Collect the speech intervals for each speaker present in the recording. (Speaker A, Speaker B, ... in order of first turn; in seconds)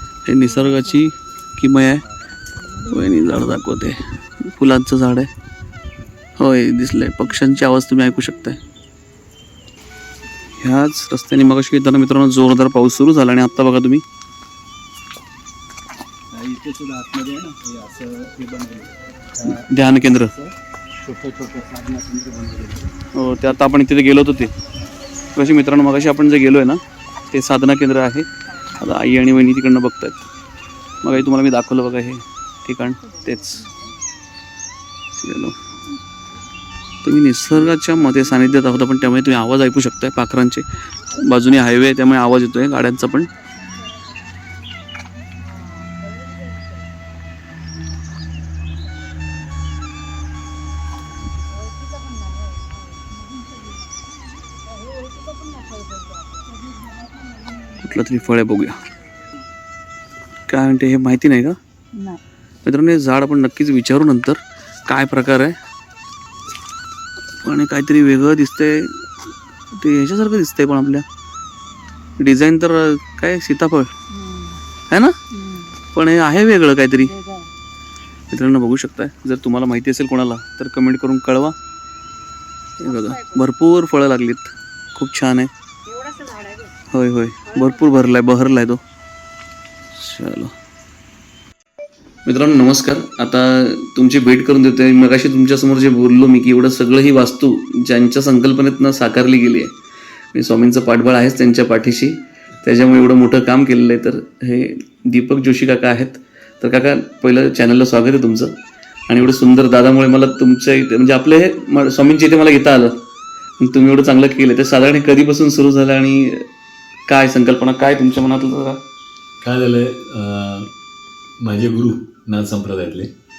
Speaker A: 0.2-2.0, 2.9-5.3, 6.4-8.6, 10.6-14.0, 19.5-20.3, 23.1-24.5, 25.3-26.8, 27.3-30.2, 31.0-33.6, 35.1-35.5, 37.0-43.3, 57.8-58.8, 60.5-61.5, 62.6-65.5, 67.4-69.0, 69.7-71.0, 72.2-73.9, 75.9-77.1, 78.3-81.5, 82.8-85.5, 86.9-88.8, 89.9-90.5, 92.2-99.7, 100.3-108.5, 109.1-113.0, 113.6-116.4, 117.1-118.8
Speaker B: 0.5-0.9, 2.5-3.1, 33.0-34.0, 43.3-44.2, 45.4-46.9, 51.4-58.9, 61.9-62.2, 74.1-74.6, 75.3-75.7, 77.0-77.5, 82.8-83.4, 85.8-86.7, 87.5-87.9
Speaker C: 16.3-22.9
Speaker D: 119.4-120.7, 121.4-123.1